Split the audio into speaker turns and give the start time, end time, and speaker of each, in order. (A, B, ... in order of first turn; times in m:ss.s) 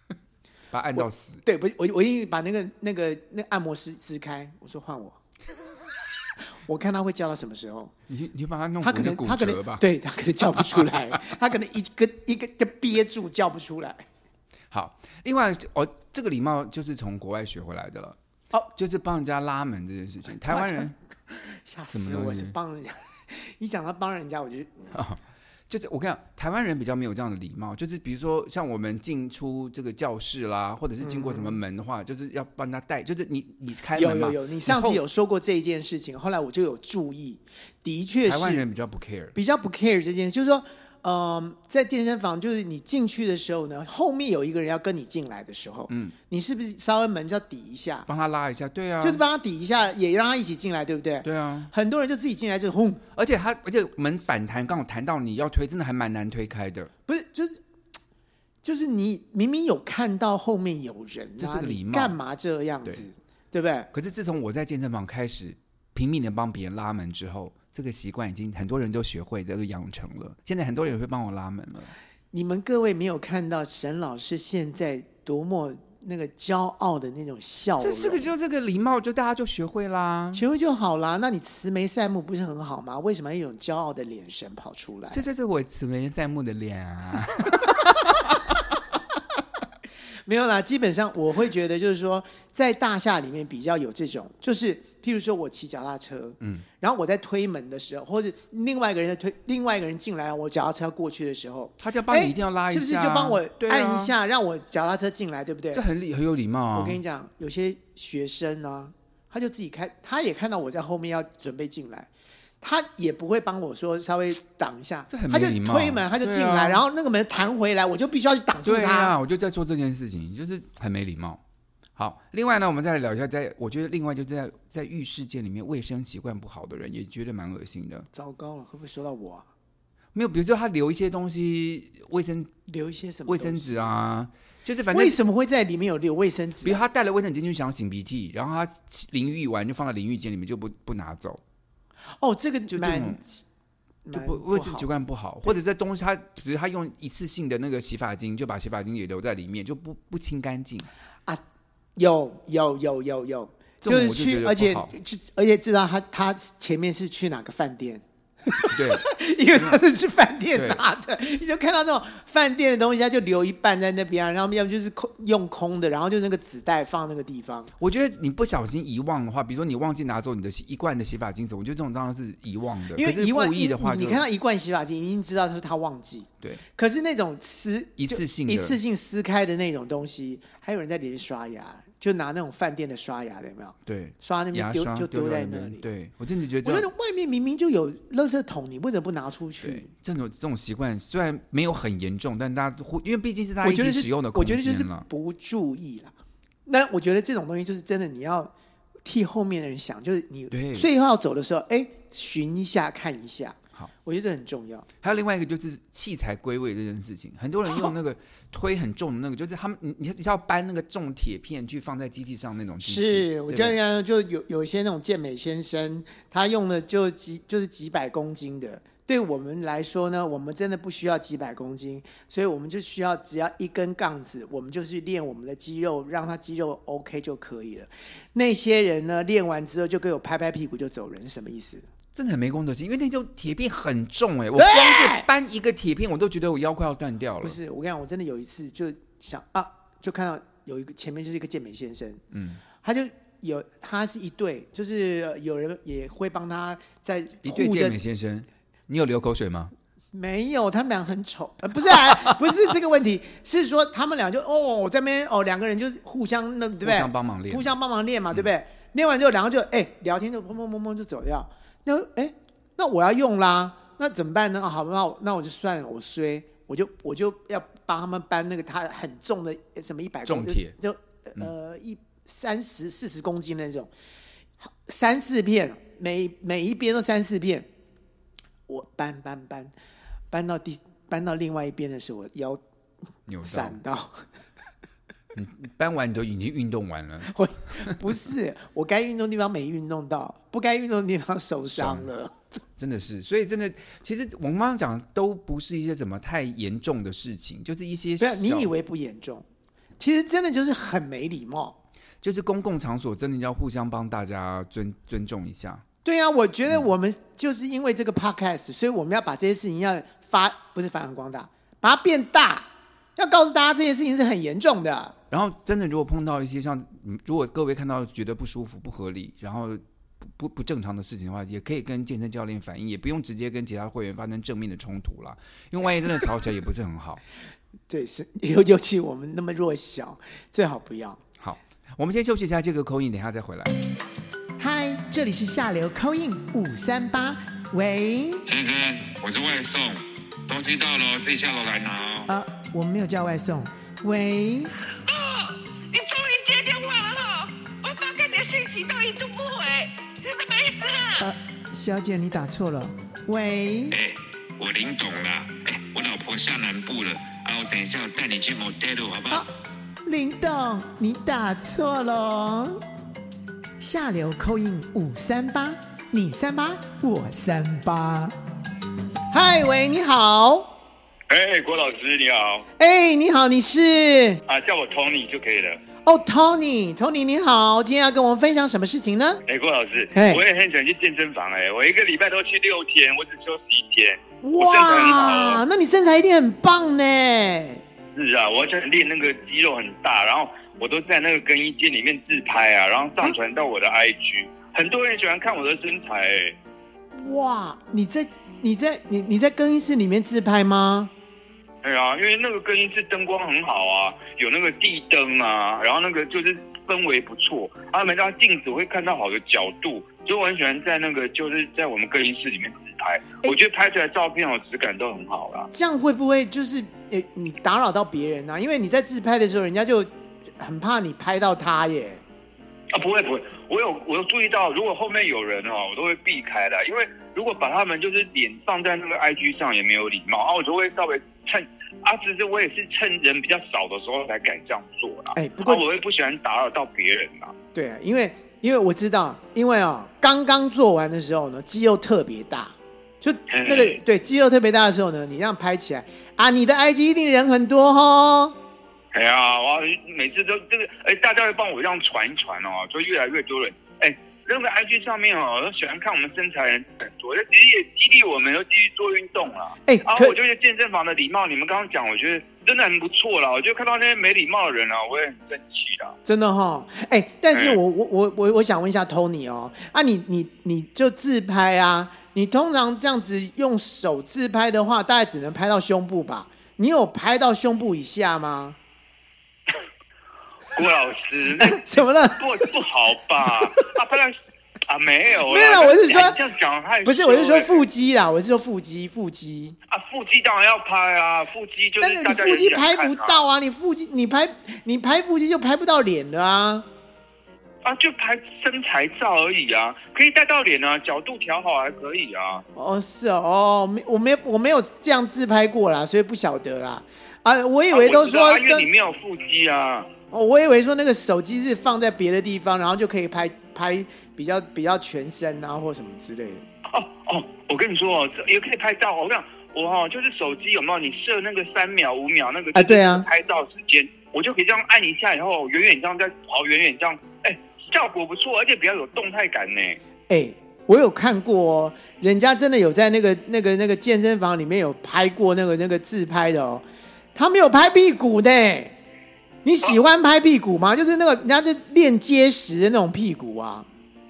0:00.7-0:01.4 A
0:01.0-0:05.2 B
0:06.6-0:07.9 B
0:08.1-0:09.8 A
0:08.8-0:14.0 B
0:10.4-0:11.2 A
0:14.7-0:18.2 A
0:18.8-0:20.9 A
0:20.3-0:24.9 B
0:21.9-0:22.6 A
0:24.9-0:35.0 A
0:31.0-0:31.6 B
0:34.0-0:38.6 B
0:38.2-0:39.3 A
0:39.3-0:48.1 B
0:45.9-0:46.1 A
0:48.1-0:49.2 A
0:49.0-0:53.0 B
0:51.2-0:51.7 A
0:53.1-0:56.9 A
0:57.1-0:57.6 B
0:58.6-1:03.9 B
1:01.4-1:02.2 A
1:03.9-1:11.9 A
1:12.3-1:18.3 B
1:17.8-1:20.4 A
1:20.3-1:25.2 B
1:25.1-1:28.7 A
1:30.2-1:45.8 B
1:41.8-1:44.1 A
1:45.7-1:47.0 A
1:46.7-1:52.1 B
1:52.6-1:59.1 B
1:55.1-1:56.8 A
1:58.6-2:01.4 A
2:02.0-2:08.1 A
2:08.1-2:09.5 B
2:10.1-2:12.5 A
2:12.7-2:13.9 B
2:13.3-2:15.2 A
2:14.9-2:16.8 B
2:16.6-2:21.4 A
2:22.2-2:23.4 B
2:22.7-2:23.2 A
2:24.0-2:24.9 B
2:24.1-2:30.9 A
2:32.0-2:47.7 B
2:33.8-2:34.9 A
2:38.7-2:39.8 A
2:40.5-2:40.8 A
2:47.8-2:54.2 A
2:52.9-3:05.8 B
2:58.0-2:58.8 A
3:03.8-3:06.9 A
3:06.6-3:09.9 B
3:09.6-3:15.0 A
3:13.6-3:16.1 B
3:16.6-3:18.5 B
3:19.0-3:24.9 B
3:20.5-3:20.9 A
3:25.0-3:33.8 A
3:32.8-3:51.9 B
3:52.1-3:57.6 A
3:54.6-3:55.2 B
3:57.4-4:02.2 B
4:02.3-4:02.6 A
4:02.8-4:08.0 B
4:07.4-4:09.7 A
4:10.1-4:33.9 B
4:16.8-4:17.7 A
4:30.2-4:30.7 A
4:34.6-4:37.7 B
4:38.7-4:39.7 B
4:40.3-4:42.6 B
4:43.3-4:43.8 A
4:43.4-4:44.2 B
4:45.3-4:47.3 A
4:47.2-4:52.4 B
4:51.7-4:52.1 A
4:52.8-4:58.7 A
4:58.2-4:59.4 B
5:00.0-5:01.8 B
5:02.2-5:05.8 A
5:06.0-5:15.1 B
5:15.3-5:27.2 A
5:27.9-5:31.2 B
5:31.4-5:33.7 A
5:34.6-5:38.4 B
5:38.5-5:42.3 C
5:42.3-5:44.7 B
5:45.1-5:51.3 D
5:51.2-5:54.0 B
5:53.9-5:59.4 C
6:00.0-6:02.8 B
6:03.8-6:08.3 B
6:09.3-6:10.7 B
6:11.3-6:12.6 E
6:12.8-6:14.4 B
6:14.5-6:15.8 E
6:16.0-6:19.4 B
6:19.5-6:25.6 E
6:20.1-6:20.4 B
6:24.4-6:27.8 B
6:28.1-6:36.6 E
6:37.1-6:41.1 B
6:41.8-6:55.7 E
6:55.7-7:00.1 B
7:00.6-7:02.2 B
7:02.9-7:17.5 E
7:15.3-7:15.8 B
7:17.7-7:28.5 B
7:23.5-7:24.0 E
7:29.1-7:46.2 E
7:39.9-7:40.4 B
7:46.2-7:58.8 B
7:47.5-7:47.8 E
8:00.7-8:01.8 E
8:01.6-8:02.7 B
8:02.4-8:04.3 E
8:03.5-8:03.9 B
8:04.9-8:07.8 E
8:05.4-8:06.4 B
8:07.0-8:09.8 B
8:09.9-8:13.4 E
8:12.0-8:16.8 B
8:17.8-8:22.6 E
8:22.7-8:28.9 B
8:27.9-8:30.1 E
8:30.3-8:36.6 B
8:36.9-8:50.0 E
8:42.7-8:43.2 B
8:50.3-8:58.9 B
8:59.6-9:03.9 B